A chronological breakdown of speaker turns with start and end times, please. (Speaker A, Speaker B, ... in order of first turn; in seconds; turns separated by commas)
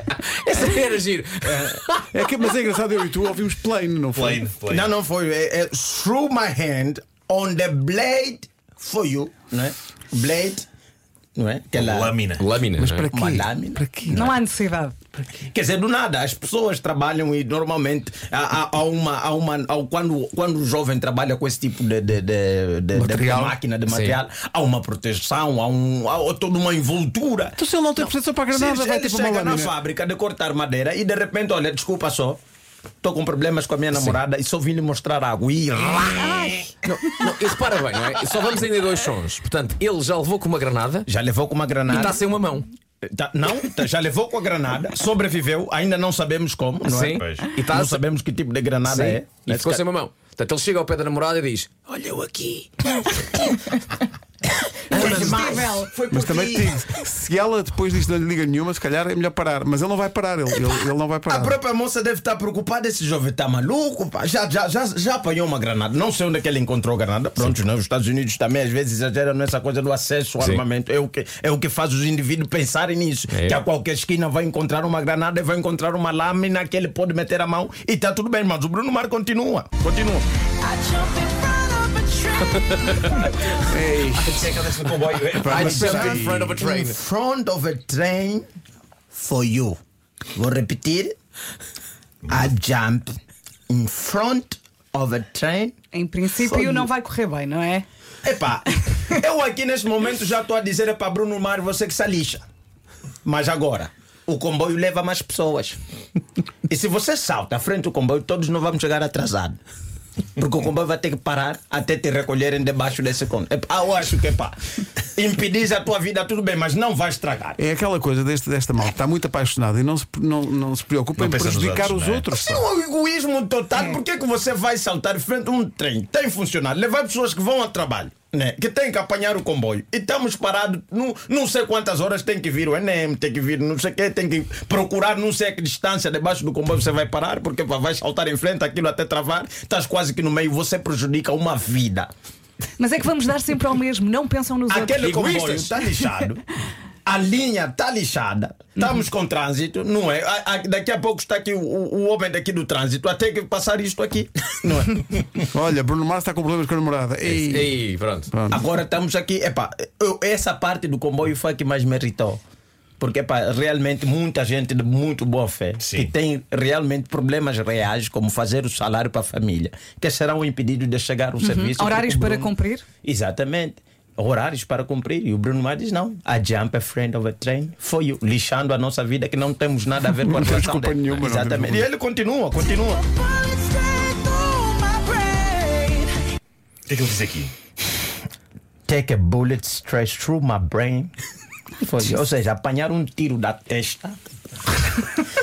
Speaker A: 0.2-2.0, Speaker B: 2.1-4.4, Speaker C: 4.1-4.9, Speaker D: 4.7-10.7, Speaker D: 11.3-12.2, Speaker C: 11.7-12.6, Speaker A: 12.3-13.1, Speaker B: 12.8-14.2, Speaker D: 13.1-14.4, Speaker E: 14.2-14.9, Speaker D: 15.3-27.6, Speaker B: 22.9-23.6, Speaker A: 23.9-24.2, Speaker B: 27.6-29.7, Speaker D: 28.5-32.4, Speaker D: 33.0-36.6, Speaker A: 33.9-34.2, Speaker A: 36.8-41.1, Speaker D: 41.0-42.2, Speaker A: 41.9-42.7, Speaker D: 43.0-49.8, Speaker A: 46.8-48.0, Speaker C: 47.1-47.5, Speaker A: 48.8-52.7, Speaker D: 54.9-56.7, Speaker A: 54.9-55.5, Speaker F: 55.4-55.9, Speaker B: 56.1-61.6, Speaker D: 61.3-80.3, Speaker A: 73.3-73.6, Speaker F: 80.6-82.5, Speaker A: 82.5-83.3, Speaker B: 83.7-84.5, Speaker A: 84.0-84.5, Speaker C: 84.3-85.6, Speaker B: 85.4-86.5, Speaker A: 85.5-87.0, Speaker D: 85.5-88.5, Speaker D: 89.1-89.8, Speaker D: 90.3-91.2, Speaker D: 92.3-93.2, Speaker D: 93.7-95.7, Speaker E: 95.9-97.8, Speaker D: 96.4-96.9, Speaker D: 98.2-102.4, Speaker D: 103.2-105.8, Speaker D: 106.7-109.6, Speaker D: 110.4-114.5, Speaker D: 115.1-117.6, Speaker B: 117.6-122.6, Speaker C: 121.2-122.3, Speaker D: 122.3-142.1, Speaker E: 142.8-145.6, Speaker D: 144.7-146.4, Speaker D: 147.0-155.5, Speaker B: 155.5-157.8, Speaker A: 157.2-158.3, Speaker B: 158.3-158.6, Speaker D: 158.5-162.4, Speaker D: 163.0-172.5, Speaker C: 165.8-166.1, Speaker E: 171.4-172.8, Speaker F: 172.2-172.4, Speaker D: 173.0-183.0, Speaker B: 180.3-181.8, Speaker A: 183.2-185.8, Speaker F: 184.4-186.1, Speaker C: 186.9-187.5, Speaker D: 188.9-191.1, Speaker D: 191.8-194.2